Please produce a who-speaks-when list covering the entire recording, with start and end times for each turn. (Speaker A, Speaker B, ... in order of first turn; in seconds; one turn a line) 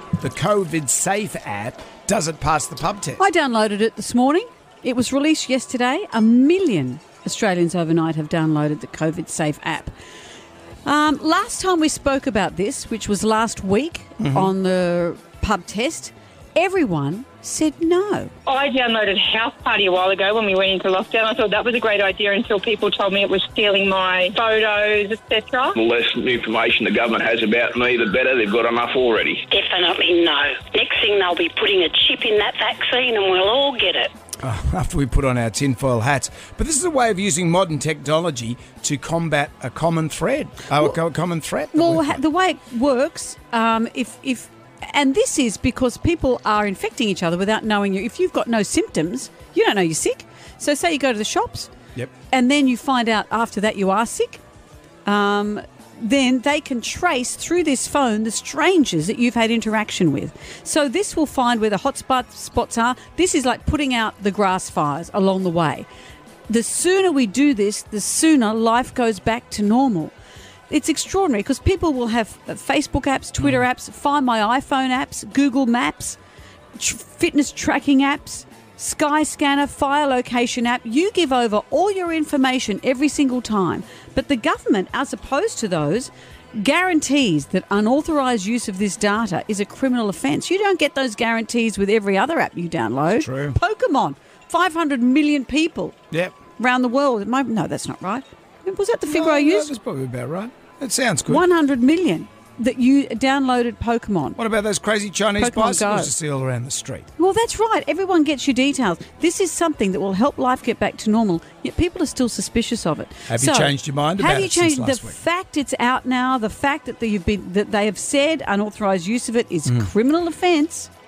Speaker A: 0.2-3.2
Speaker B: 3.2-9.9
Speaker B: 10.8-18.3
Speaker A: 14.2-14.5
Speaker C: 18.5-25.8
Speaker D: 25.8-29.4
Speaker E: 29.5-34.1
Speaker A: 34.4-42.2
Speaker B: 41.7-51.7
Speaker B: 52.3-54.4
Speaker B: 55.0-65.9
Speaker B: 66.5-70.1
Speaker B: 70.7-76.2
Speaker B: 76.8-96.0
Speaker A: 93.1-93.6
Speaker B: 96.6-99.7
Speaker A: 99.1-101.5
Speaker B: 101.3-104.4
Speaker A: 104.4-107.1
Speaker B: 105.4-106.1
Speaker B: 107.2-120.9
Speaker A: 113.3-115.2